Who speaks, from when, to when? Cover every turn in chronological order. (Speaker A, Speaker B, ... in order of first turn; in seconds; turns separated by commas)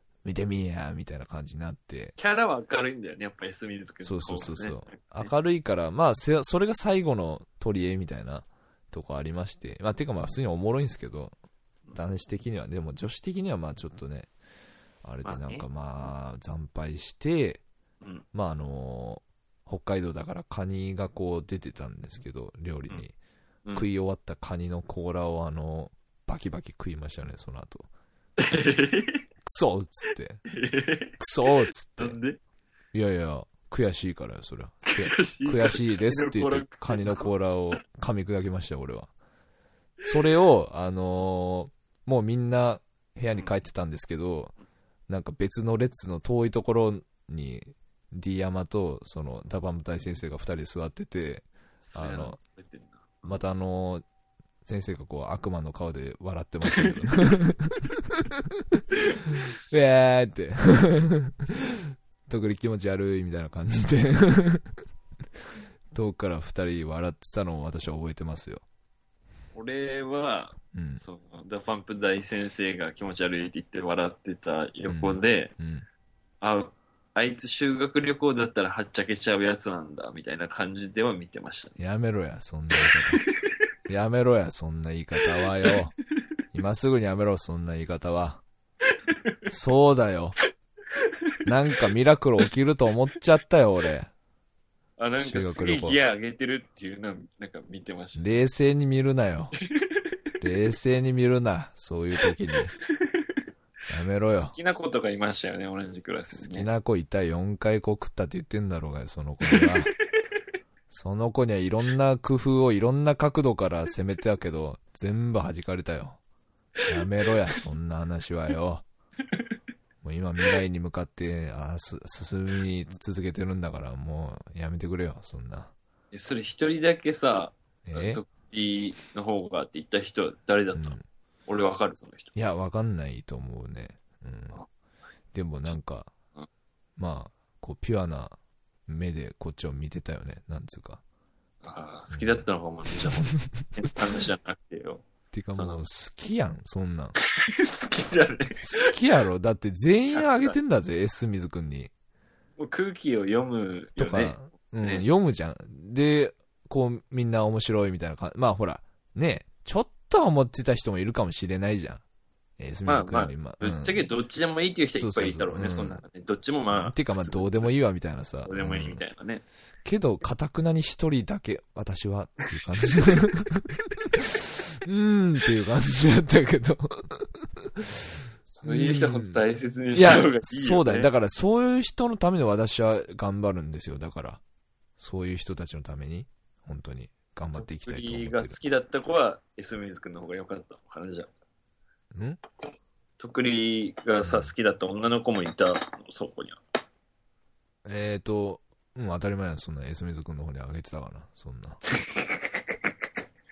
Speaker A: 0.2-2.1, Speaker B: 2.2-5.3, Speaker A: 4.0-11.3, Speaker A: 11.9-14.3, Speaker A: 15.0-17.6, Speaker B: 15.2-15.7, Speaker A: 18.3-23.1, Speaker A: 23.7-27.9, Speaker B: 28.4-29.2, Speaker A: 29.4-30.4, Speaker B: 30.4-31.2, Speaker A: 31.2-32.2, Speaker B: 32.0-32.4, Speaker A: 32.9-39.1, Speaker B: 34.9-37.3, Speaker A: 40.0-44.5, Speaker A: 45.1-52.4, Speaker B: 51.8-53.4, Speaker A: 53.2-54.0, Speaker A: 54.6-64.7, Speaker B: 56.7-57.0, Speaker A: 65.9-68.6, Speaker B: 69.5-75.5, Speaker A: 70.7-71.0, Speaker A: 74.9-75.8, Speaker B: 76.4-81.8, Speaker A: 81.8-83.3, Speaker B: 82.8-83.3, Speaker A: 83.9-85.9, Speaker A: 86.5-88.4, Speaker A: 89.5-90.4, Speaker B: 90.9-91.3, Speaker A: 91.4-94.1, Speaker B: 95.0-98.4, Speaker A: 95.2-96.0, Speaker A: 98.2-99.5, Speaker B: 99.7-100.0, Speaker A: 100.4-102.7, Speaker B: 102.9-103.4, Speaker A: 103.9-104.5, Speaker B: 104.3-106.7, Speaker A: 106.3-109.9, Speaker B: 109.5-109.8, Speaker A: 110.9-116.2, Speaker A: 116.8-118.8, Speaker B: 119.2-119.5, Speaker A: 120.0-125.7, Speaker B: 126.1-132.3, Speaker A: 127.8-128.2, Speaker A: 130.7-131.0, Speaker A: 132.3-134.6, Speaker A: 135.3-136.1, Speaker A: 137.0-141.0, Speaker B: 141.6-145.8, Speaker A: 142.1-142.4, Speaker A: 143.0-143.9, Speaker A: 145.3-147.2, Speaker B: 147.2-148.9, Speaker A: 148.6-151.9, Speaker B: 150.1-150.6, Speaker B: 152.6-155.1, Speaker A: 154.0-162.0, Speaker A: 162.6-164.0, Speaker B: 162.9-167.7, Speaker A: 164.9-166.0, Speaker A: 166.7-169.0, Speaker B: 168.4-169.4, Speaker A: 169.8-179.4, Speaker B: 178.5-181.1, Speaker A: 179.9-184.4, Speaker A: 185.0-188.6, Speaker B: 187.6-191.3, Speaker A: 192.1-192.4, Speaker B: 193.2-196.6, Speaker A: 194.2-194.5, Speaker A: 197.8-201.8, Speaker B: 202.1-202.4